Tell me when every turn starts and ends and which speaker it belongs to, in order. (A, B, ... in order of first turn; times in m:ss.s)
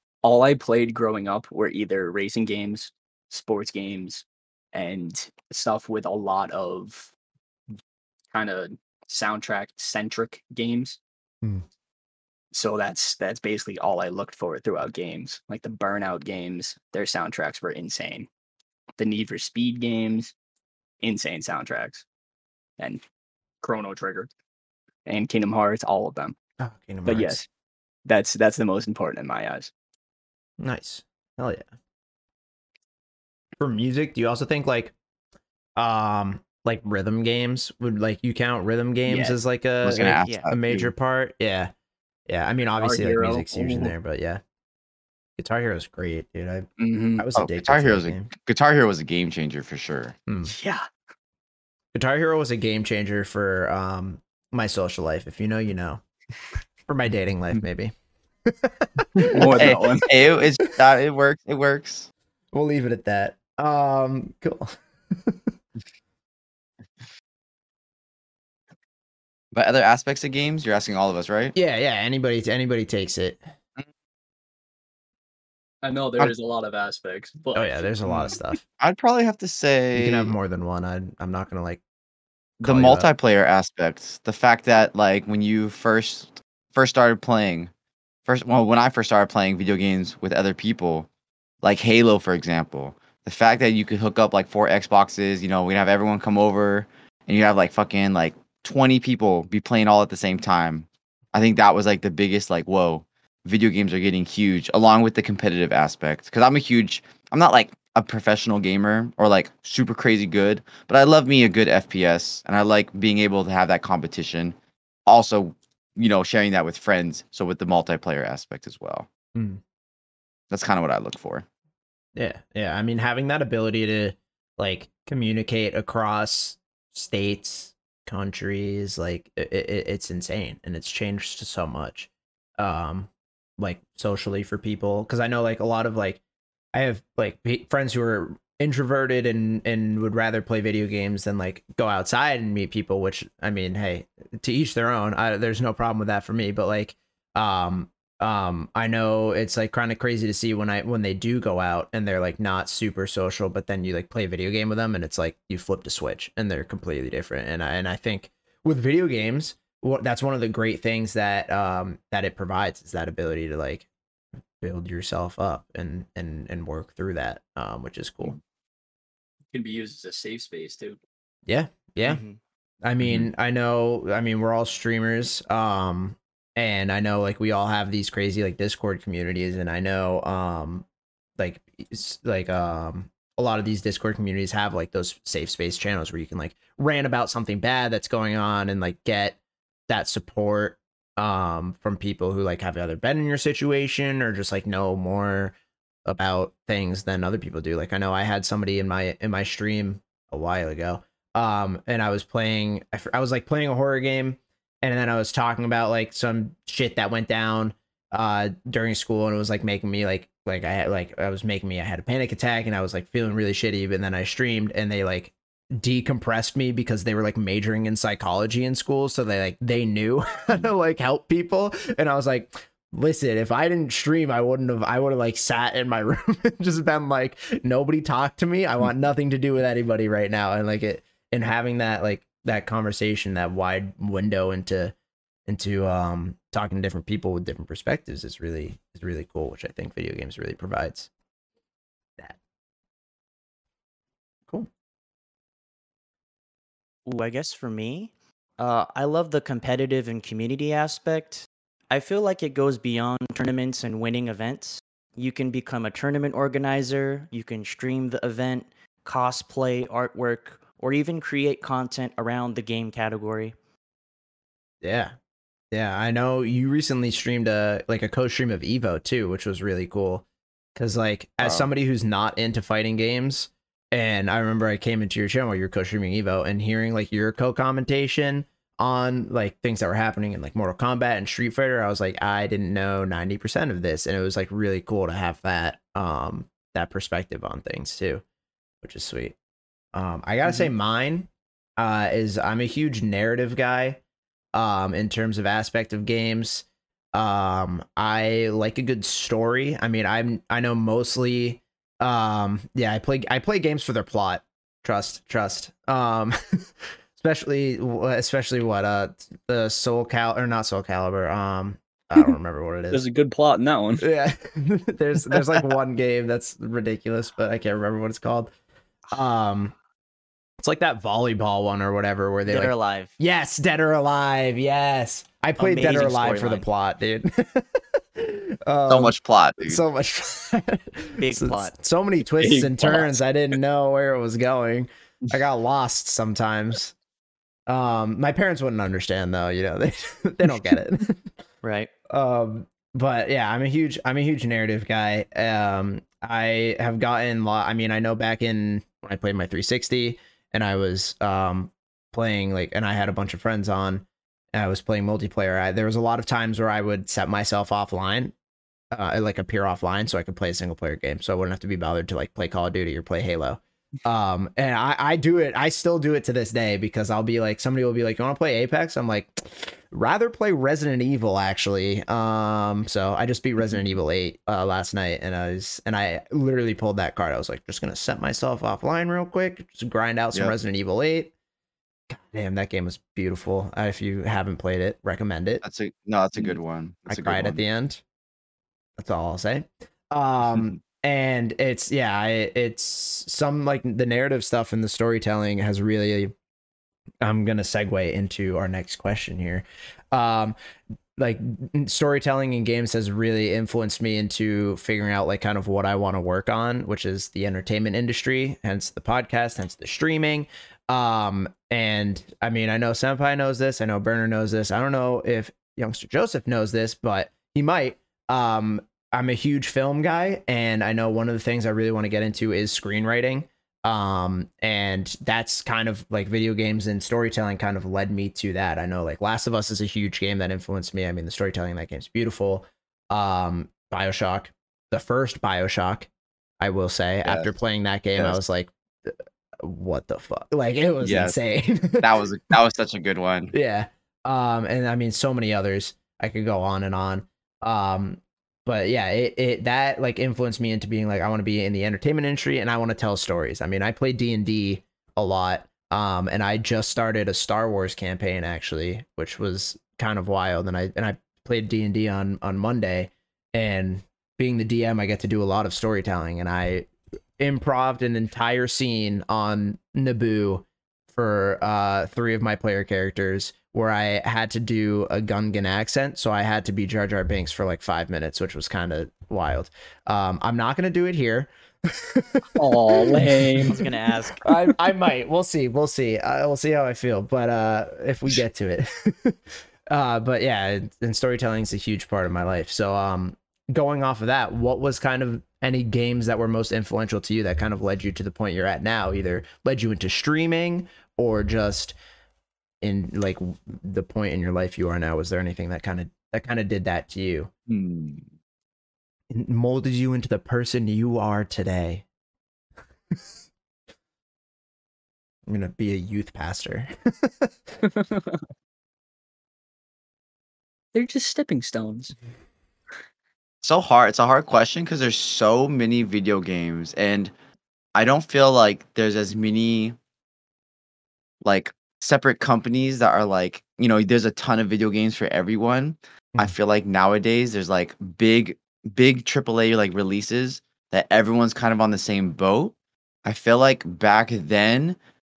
0:00.2-0:07.1 A
0:08.3-0:11.0 A
0:12.5-0:18.3 A
0:19.0-0:20.3 A
0:21.0-0:22.0 A
0:23.6-0:24.3 A
0:25.1-0:26.4 A
0:26.6-0:27.4 B
0:27.0-0:27.5 A
0:28.1-0:29.7 A
0:30.6-0:31.7 B
0:33.6-0:34.9 B
0:35.8-0:41.7 B
0:39.1-0:39.4 A
0:39.8-0:40.9 C
0:42.3-0:44.4 B
0:42.8-0:43.9 A
0:45.4-0:48.3 B
0:46.8-0:47.2 A
0:47.3-0:50.2 C
0:50.3-0:50.5 B
0:50.5-0:50.9 A
0:51.9-0:56.0 B
0:56.9-0:57.9 B
0:58.5-1:00.1 B
0:59.2-1:00.1 A
0:59.6-1:02.1 C
1:02.5-1:05.4 B
1:09.5-1:11.5 C
1:11.6-1:13.4 B
1:15.8-1:17.9 A
1:17.5-1:18.6 B
1:18.0-1:20.3 C
1:19.9-1:21.8 B
1:22.6-1:27.7 C
1:22.6-1:23.1 B
1:28.3-1:31.1 C
1:31.6-1:54.6 C
1:55.1-1:59.1 C
1:59.4-1:59.6 B
2:00.5-2:01.4 C
2:02.2-2:16.2 B
2:16.7-2:43.9 B
2:44.6-2:48.4 B
2:49.5-2:51.0 A
2:51.5-2:52.2 B
2:52.0-2:52.4 D
2:52.8-3:00.8 B
2:53.0-2:53.3 C
3:01.4-3:09.4 B
3:09.9-3:15.5 B
3:16.0-3:54.9 B
3:55.5-4:01.1 B
4:07.1-4:23.5 D
4:24.8-4:25.1 B
4:25.7-4:30.2 B
4:30.8-4:48.2 B
4:31.4-4:31.7 C
4:48.8-4:49.4 B
4:49.9-4:54.0 B
4:54.5-5:13.0 B
5:12.9-5:14.1 A
5:14.0-5:18.5 B
5:19.1-5:19.7 B
5:20.6-5:37.0 B
5:22.5-5:23.1 D
5:25.6-5:26.6 D
5:25.7-5:26.6 A
5:28.9-5:29.8 C
5:31.2-5:31.7 D
5:32.4-5:33.2 A
5:37.7-5:41.3 B
5:41.6-5:41.9 D
5:42.1-5:58.3 B
5:58.9-6:21.3 B
6:22.1-6:25.6 B
6:25.6-6:27.6 C
6:27.1-6:28.0 B
6:29.0-6:36.3 B
6:37.2-6:40.6 B
6:41.2-7:16.1 B
7:16.6-7:22.2 B
7:17.2-7:17.5 C
7:21.0-7:21.4 C
7:22.0-7:23.5 C
7:23.5-8:03.7 B
8:02.6-8:03.8 A
8:03.7-8:04.6 D
8:04.4-8:09.4 B
8:09.9-8:22.0 B
8:22.8-8:27.5 B
8:27.7-8:28.3 C
8:29.3-8:32.0 B
8:35.5-8:37.8 B
8:37.8-8:38.4 A
8:40.9-8:42.2 A
8:43.6-8:47.3 C
8:48.0-8:50.0 C
8:51.4-9:02.7 C
9:03.2-9:05.0 C